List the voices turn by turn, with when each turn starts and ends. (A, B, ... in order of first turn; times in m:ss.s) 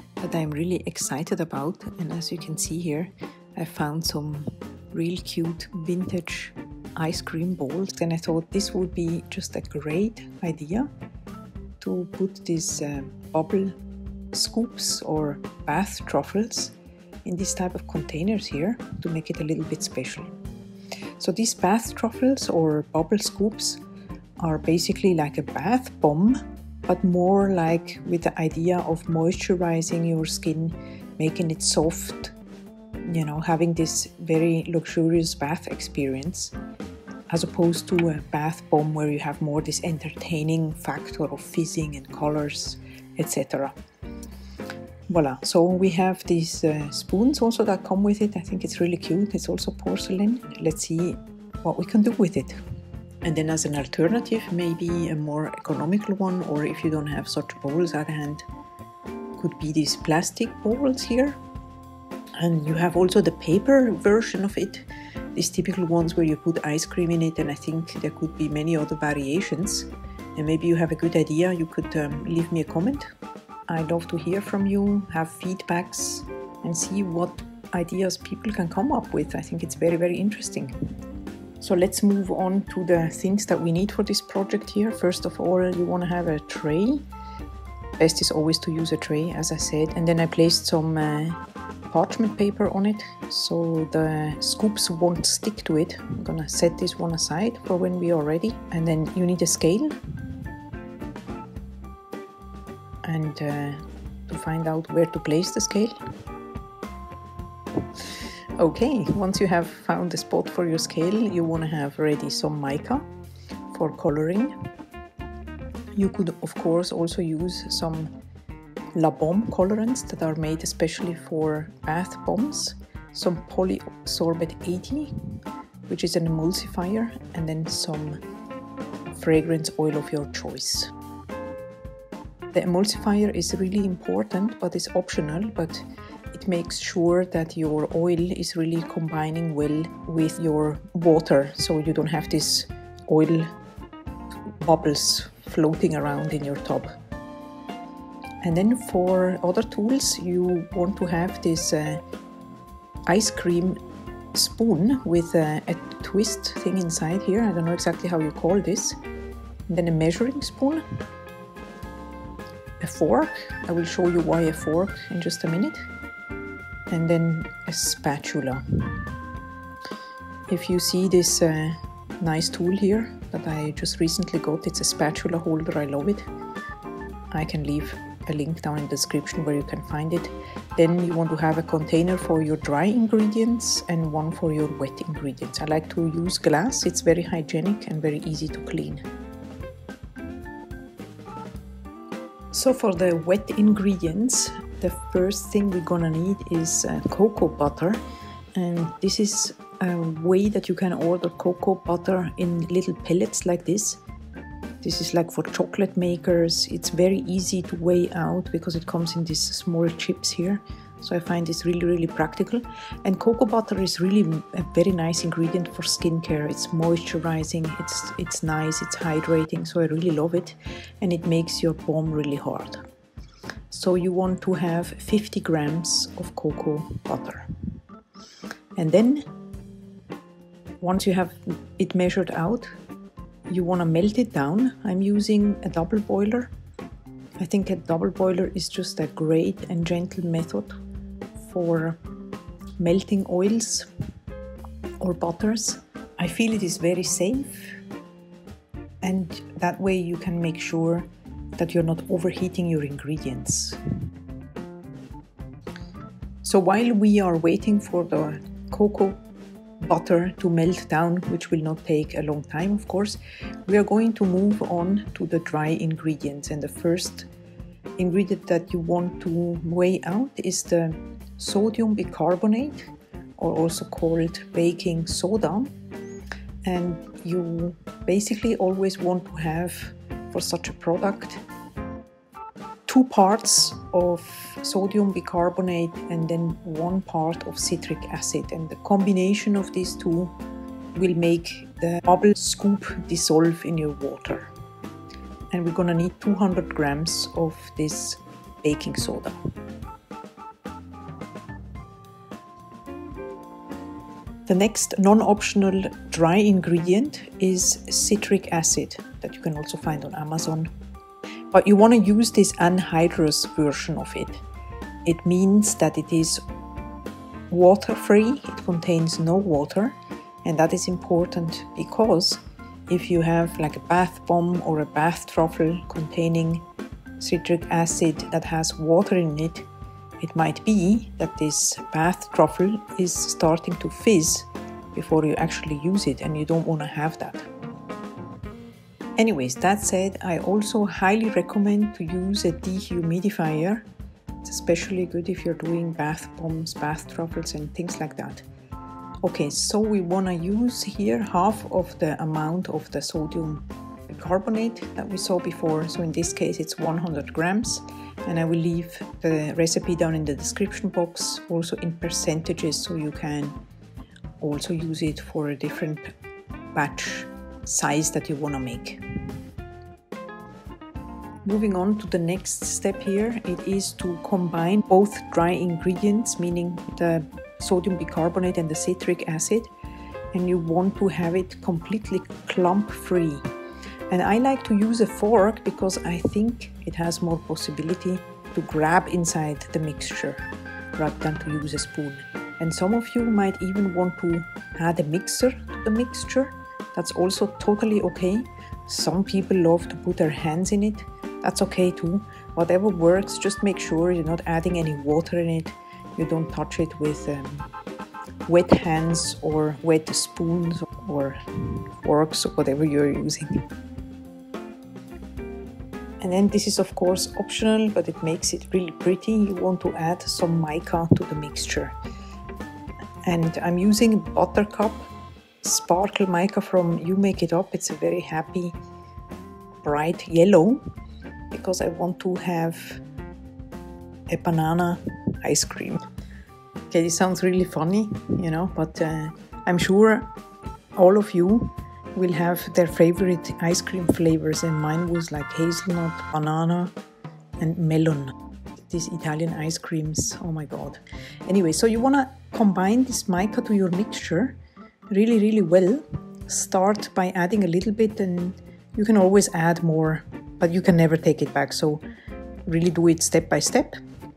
0:00.2-0:10.9 A
0:11.8-0:13.8 A
0:14.3-0:20.3 A
0:21.2-0:23.8 A
0:24.4-0:32.3 A
0:33.0-0:36.5 A
0:37.3-0:43.7 A
0:45.1-0:52.6 A
0:53.2-0:58.4 A
0:59.4-1:01.4 A
1:02.4-1:13.1 A
1:13.7-1:20.7 A
1:21.6-1:27.0 A
1:28.0-1:40.0 A
1:43.0-1:46.0 A
1:48.6-1:53.0 A
1:53.7-1:54.6 A
1:55.9-1:58.1 A
1:58.9-2:05.1 A
2:05.9-2:08.2 A
2:09.2-2:10.9 A
2:12.5-2:23.5 A
2:24.6-2:26.9 A
2:28.4-2:32.0 A
2:33.1-2:33.8 A
2:34.3-2:39.0 A
2:39.7-2:40.8 A
2:42.8-2:45.9 A
2:46.9-2:49.1 A
2:50.5-2:56.2 A
2:57.3-3:09.0 A
3:12.5-3:18.0 A
3:18.6-3:24.0 A
3:24.8-3:42.8 A
3:43.7-3:47.5 A
3:48.8-3:49.3 A
3:50.8-3:52.7 A
3:53.5-3:56.5 A
3:57.4-4:00.8 A
4:01.4-4:02.0 A
4:02.8-4:03.9 A
4:05.0-4:07.8 A
4:09.0-4:13.8 A
4:16.4-4:19.2 A
4:19.8-4:27.3 A
4:28.0-4:35.7 A
4:36.6-4:41.4 A
4:42.9-4:50.4 A
4:50.9-4:54.5 A
4:55.5-4:59.4 A
5:04.5-5:10.7 A
5:11.5-5:14.4 A
5:15.0-5:16.4 A
5:17.5-5:26.6 A
5:27.2-5:29.7 A
5:30.2-5:37.5 A
5:39.2-5:43.8 A
5:44.4-5:48.4 A
5:49.2-6:03.6 A
6:04.4-6:06.1 A
6:06.7-6:09.0 A
6:11.4-6:19.7 A
6:20.3-6:23.5 A
6:24.1-6:30.4 A
6:31.0-6:47.7 A
6:48.4-6:53.6 A
6:56.2-7:02.0 A
7:03.2-7:05.1 A
7:05.6-7:08.8 A
7:09.8-7:10.9 A
7:11.5-7:13.0 A
7:14.3-7:16.0 A
7:16.9-7:20.3 A
7:21.0-7:26.9 A
7:27.6-7:34.6 A
7:35.1-7:42.0 A
7:42.7-7:44.0 A